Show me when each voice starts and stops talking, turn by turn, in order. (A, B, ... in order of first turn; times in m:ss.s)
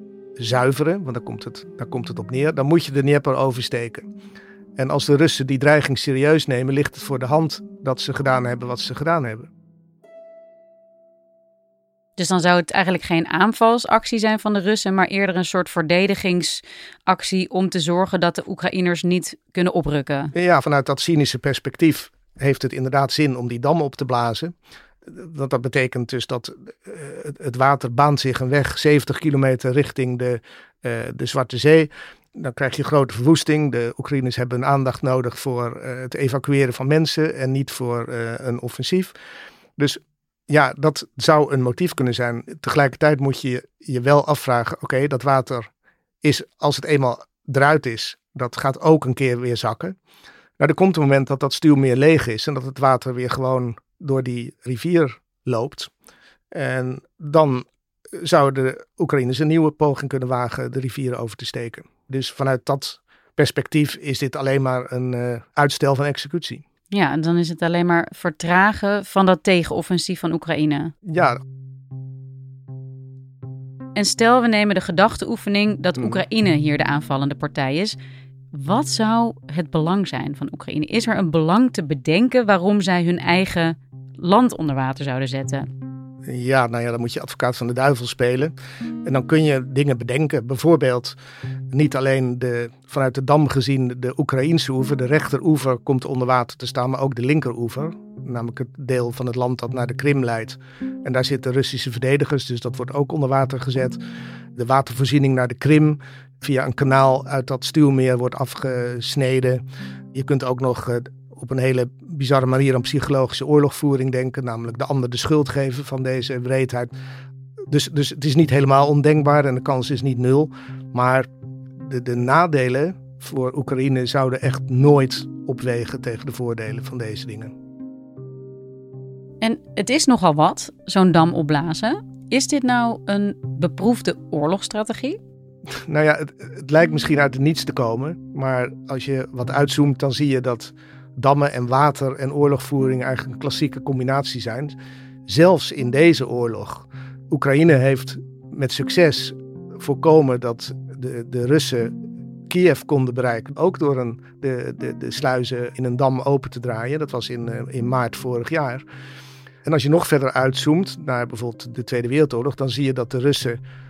0:00.4-0:04.1 A
0:04.8-0:09.5 A
0:12.2-0:20.3 B
0:20.4-0:24.5 A
0:25.1-0:39.1 A
0:39.8-0:45.7 A
0:46.2-0:50.0 A
0:50.6-0:55.9 A
0:56.5-0:57.7 A
0:58.2-1:06.6 A
1:06.9-1:10.9 B
1:11.1-1:11.4 A
1:14.0-1:18.0 B
1:18.5-1:25.7 B
1:26.3-1:28.5 A
1:29.0-1:31.2 A
1:31.7-1:44.0 A
1:44.6-1:49.6 A
1:50.1-1:56.9 A
1:57.7-2:01.3 A
2:01.8-2:07.5 A
2:09.4-2:15.2 B
2:15.9-2:24.8 A
2:25.3-2:32.0 A
2:32.5-2:38.8 A
2:39.6-2:43.6 A